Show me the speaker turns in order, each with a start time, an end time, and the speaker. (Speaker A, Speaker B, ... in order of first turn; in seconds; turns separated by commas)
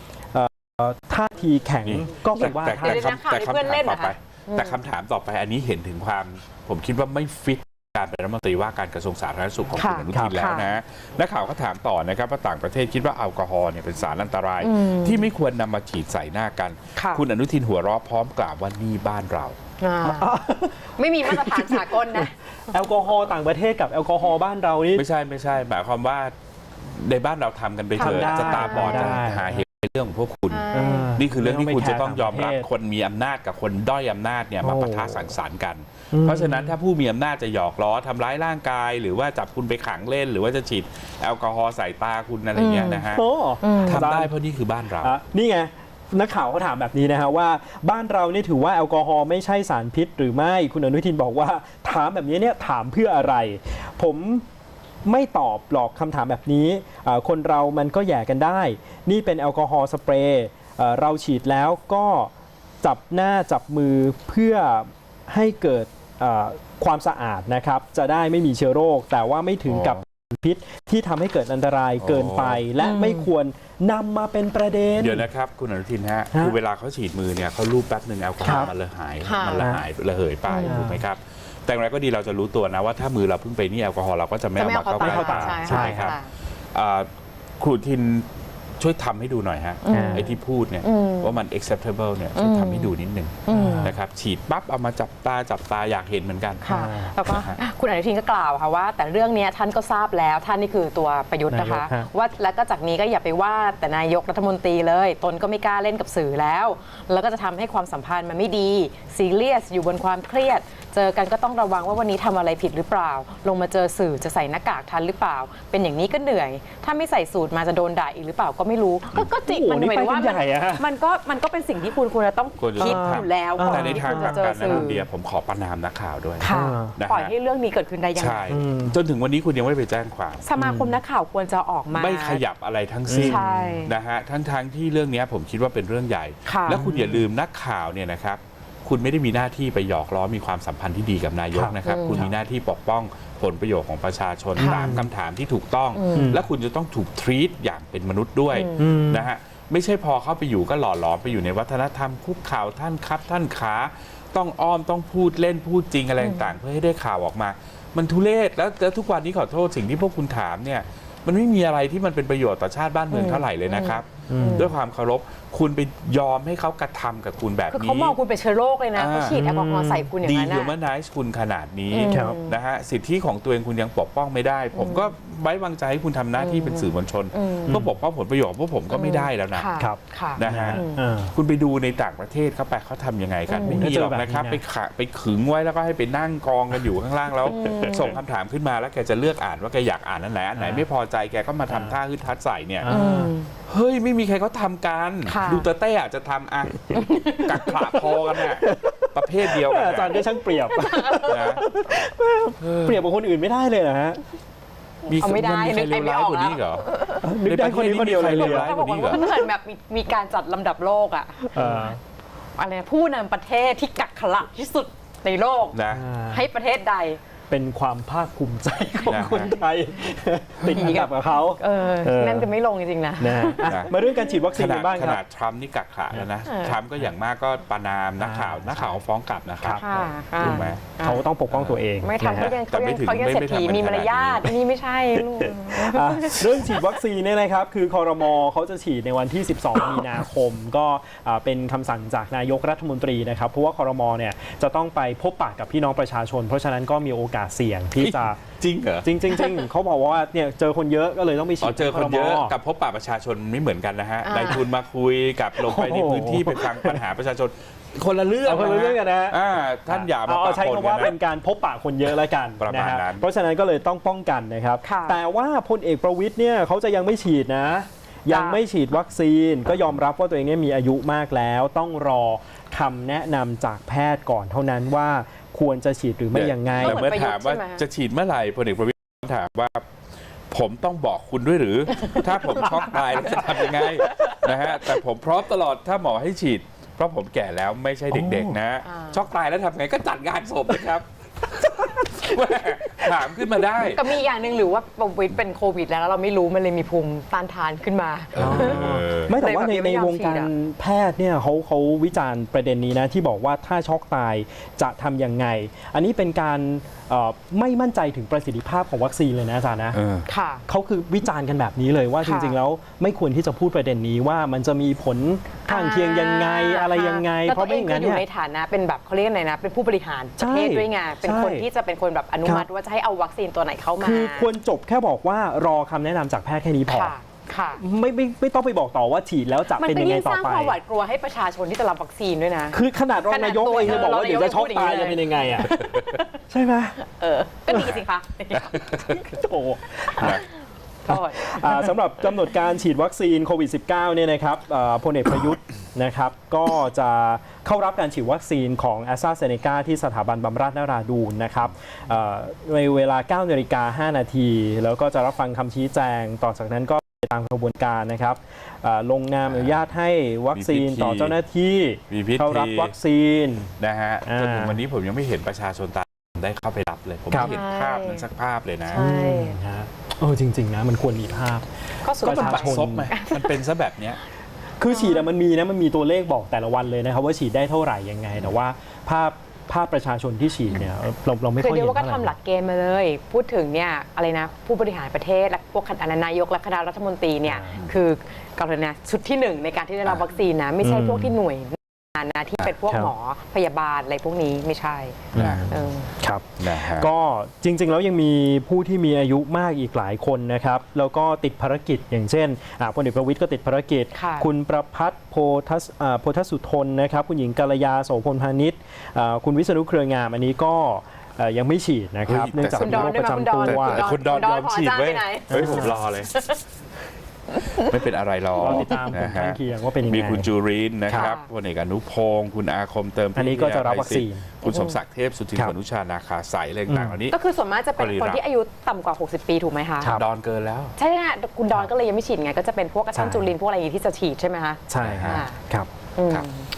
Speaker A: 0.3-3.1, Speaker B: 1.9-19.6, Speaker C: 2.4-4.8, Speaker C: 9.7-10.7, Speaker A: 10.1-10.4, Speaker C: 14.6-15.3, Speaker C: 17.0-17.2, Speaker C: 19.8-20.4, Speaker A: 20.0-25.1, Speaker C: 21.0-22.3, Speaker B: 24.9-43.3, Speaker C: 28.0-29.3, Speaker A: 28.0-29.6, Speaker C: 30.5-31.2, Speaker A: 30.7-32.7, Speaker A: 34.6-35.3, Speaker A: 36.1-36.7, Speaker C: 42.5-43.1, Speaker A: 43.1-44.3, Speaker C: 43.6-44.0, Speaker B: 43.8-45.1, Speaker A: 45.0-54.5, Speaker A: 55.0-75.3, Speaker B: 69.7-70.0, Speaker B: 72.0-72.7, Speaker C: 72.8-73.3, Speaker B: 75.0-86.2, Speaker A: 78.4-78.7, Speaker C: 79.2-79.7, Speaker A: 79.6-79.8, Speaker C: 80.5-80.8, Speaker A: 80.6-81.0, Speaker C: 84.6-86.3, Speaker A: 85.0-86.2, Speaker B: 86.7-87.1, Speaker B: 87.6-88.3, Speaker B: 88.8-96.7, Speaker C: 89.8-91.4, Speaker A: 89.9-90.3, Speaker C: 92.3-93.9, Speaker A: 93.5-93.9, Speaker C: 96.6-125.0, Speaker A: 96.7-97.2, Speaker B: 97.2-97.6, Speaker A: 101.5-102.1, Speaker A: 119.5-120.8, Speaker B: 122.6-127.3, Speaker A: 122.8-124.9, Speaker C: 126.4-128.5, Speaker A: 126.4-127.0, Speaker B: 128.2-130.4, Speaker A: 128.5-129.0, Speaker C: 130.4-132.4, Speaker A: 130.6-131.0, Speaker B: 131.9-168.2, Speaker A: 133.1-133.5, Speaker C: 133.2-133.9, Speaker C: 136.5-136.8, Speaker A: 136.7-137.3, Speaker A: 141.5-142.3, Speaker C: 141.8-142.3, Speaker C: 144.6-144.9, Speaker A: 144.6-145.1, Speaker C: 145.9-146.4, Speaker A: 146.2-146.4, Speaker C: 148.5-148.9, Speaker A: 148.8-149.3, Speaker C: 156.2-156.6, Speaker C: 163.1-164.7, Speaker A: 164.3-164.7, Speaker C: 167.7-170.8, Speaker B: 168.9-169.4, Speaker A: 169.3-170.1, Speaker B: 170.2-179.7, Speaker C: 171.9-172.6, Speaker A: 172.1-172.4, Speaker C: 174.7-175.1, Speaker C: 176.4-177.8, Speaker A: 177.7-177.9, Speaker C: 178.9-181.0, Speaker A: 179.8-181.3, Speaker B: 180.3-180.8, Speaker B: 181.3-192.9, Speaker C: 183.5-183.9, Speaker A: 183.7-184.6, Speaker C: 187.5-188.2, Speaker A: 187.6-188.1, Speaker A: 190.6-190.9, Speaker A: 191.7-192.0, Speaker A: 192.8-193.3, Speaker C: 192.9-193.5, Speaker B: 193.7-200.2, Speaker C: 195.3-195.7, Speaker C: 196.9-197.6, Speaker A: 197.7-204.2, Speaker C: 200.6-201.6, Speaker B: 201.2-201.7, Speaker B: 202.6-203.0, Speaker B: 205.1-209.2, Speaker C: 205.1-207.2, Speaker A: 207.2-208.7, Speaker C: 208.2-211.9, Speaker A: 211.5-212.0, Speaker C: 212.6-217.2, Speaker B: 215.7-216.1, Speaker A: 215.9-216.5, Speaker A: 217.5-222.5, Speaker B: 219.1-219.6, Speaker C: 220.6-223.7, Speaker A: 223.2-225.2, Speaker B: 223.7-223.9, Speaker B: 224.5-230.9, Speaker C: 226.4-226.8, Speaker A: 228.2-229.0, Speaker C: 229.8-231.3, Speaker A: 230.4-232.5, Speaker B: 231.5-231.8, Speaker C: 232.0-236.9, Speaker B: 232.4-234.6, Speaker A: 235.7-248.4, Speaker B: 248.0-249.1, Speaker A: 249.0-252.6, Speaker B: 251.6-261.1, Speaker C: 254.2-254.7, Speaker A: 255.6-257.0, Speaker A: 258.4-277.1, Speaker B: 262.6-263.3, Speaker C: 264.8-265.2, Speaker C: 268.3-268.6, Speaker B: 276.3-279.9, Speaker C: 276.7-277.8, Speaker B: 280.5-294.2, Speaker C: 282.0-282.3, Speaker C: 283.0-284.3, Speaker A: 288.1-288.6, Speaker C: 288.8-289.3, Speaker C: 293.8-300.5, Speaker B: 298.4-299.3, Speaker A: 298.4-310.0, Speaker B: 309.9-310.3, Speaker C: 310.3-310.6, Speaker A: 310.7-318.2, Speaker C: 312.2-312.6, Speaker C: 315.7-324.5, Speaker A: 320.4-321.7, Speaker A: 324.0-327.1, Speaker C: 326.9-327.8, Speaker A: 327.8-330.8, Speaker C: 329.7-336.3, Speaker A: 332.7-335.8, Speaker B: 335.6-336.0, Speaker A: 336.5-337.0, Speaker C: 337.0-339.2, Speaker B: 338.5-339.2, Speaker A: 339.1-340.4, Speaker C: 340.1-340.5, Speaker B: 340.2-340.4, Speaker C: 341.1-341.9, Speaker A: 341.1-363.7, Speaker B: 359.4-359.9, Speaker B: 360.5-361.4, Speaker B: 362.1-362.9, Speaker B: 363.8-369.0, Speaker A: 364.3-364.8, Speaker C: 367.3-368.2, Speaker C: 368.9-369.6, Speaker A: 368.9-373.1, Speaker C: 372.0-373.6, Speaker B: 372.2-374.2, Speaker A: 374.8-382.4, Speaker C: 374.9-375.3, Speaker C: 381.6-396.1, Speaker A: 387.5-387.8, Speaker A: 390.8-391.4, Speaker A: 395.3-414.1, Speaker B: 395.3-395.8, Speaker B: 396.6-397.1, Speaker C: 404.1-404.5, Speaker B: 412.3-416.4, Speaker C: 412.7-416.6, Speaker A: 415.5-416.0, Speaker C: 417.5-418.0, Speaker B: 417.8-427.4, Speaker A: 418.6-420.5, Speaker C: 418.6-419.1, Speaker C: 421.1-421.5, Speaker A: 423.4-424.5, Speaker C: 424.6-425.0, Speaker A: 426.9-427.2, Speaker C: 427.3-430.2, Speaker B: 428.0-428.4, Speaker B: 430.0-430.9, Speaker C: 431.0-435.6, Speaker A: 433.1-433.5, Speaker A: 434.9-435.9, Speaker B: 435.0-435.5, Speaker C: 436.2-436.7